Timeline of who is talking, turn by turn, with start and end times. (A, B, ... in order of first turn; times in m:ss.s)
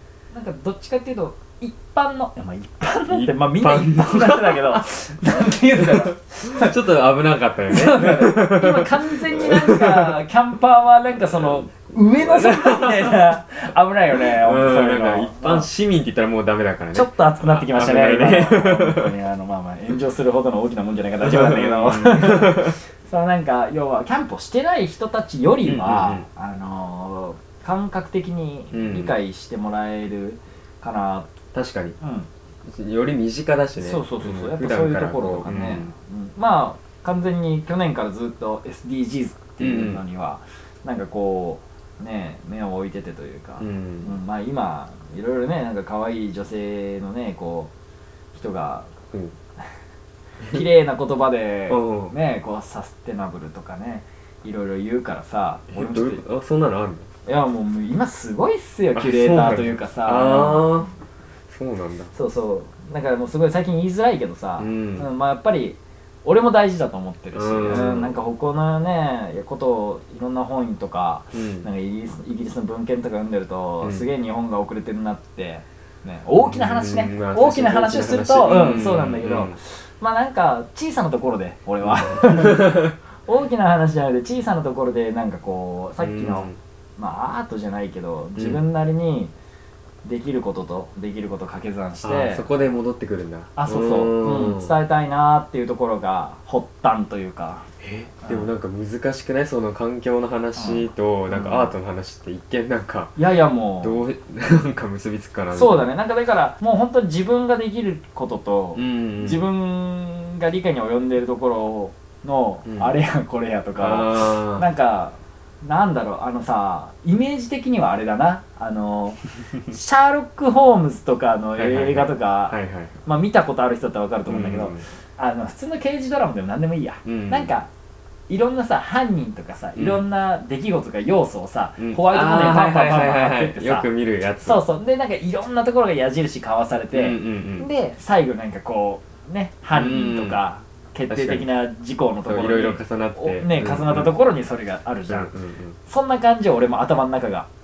0:00.3-0:06.8 A
0:03.1-0:04.8 B
0:05.8-0:10.2 B
0:07.7-0:15.7 A
0:11.2-0:11.6 B
0:12.2-0:13.3 B
0:14.1-0:19.1 B
0:16.9-0:31.3 A
0:21.2-0:22.8 B
0:25.6-0:26.3 B
0:28.7-0:29.1 B
0:31.5-0:32.0 B
0:32.0-0:32.3 A
0:32.7-0:35.9 B
0:33.8-0:47.7 A
0:39.6-0:40.0 B
0:43.6-0:44.2 B
0:48.3-0:48.9 A
0:50.5-0:56.2 A
0:51.7-0:52.1 B
0:55.7-0:57.1 B
0:57.2-1:00.9 A
0:58.9-1:00.9 B
1:01.5-1:02.1 B
1:02.1-1:29.3 A
1:04.6-1:05.1 B
1:07.3-1:08.2 B
1:11.3-1:11.7 B
1:16.4-1:19.6 B
1:21.8-1:22.9 B
1:26.0-1:26.6 B
1:30.0-1:32.4 A
1:32.0-1:34.8 B
1:33.6-1:37.7 A
1:37.8-1:43.2 B
1:38.2-1:38.5 A
1:40.6-1:41.7 A
1:43.2-1:44.0 A
1:43.8-1:45.9 B
1:45.5-2:07.7 A
1:48.8-1:49.4 B
1:52.6-1:52.9 B
1:53.8-1:54.7 B
2:01.6-2:03.0 B
2:04.3-2:04.9 B
2:07.0-2:07.5 B
2:08.3-2:13.9 A
2:09.8-2:10.0 B
2:11.8-2:14.6 B
2:14.4-2:25.3 A
2:16.9-2:17.7 B
2:19.7-2:20.4 B
2:21.1-2:21.5 B
2:22.2-2:24.1 B
2:25.1-2:25.8 B
2:25.8-2:27.5 A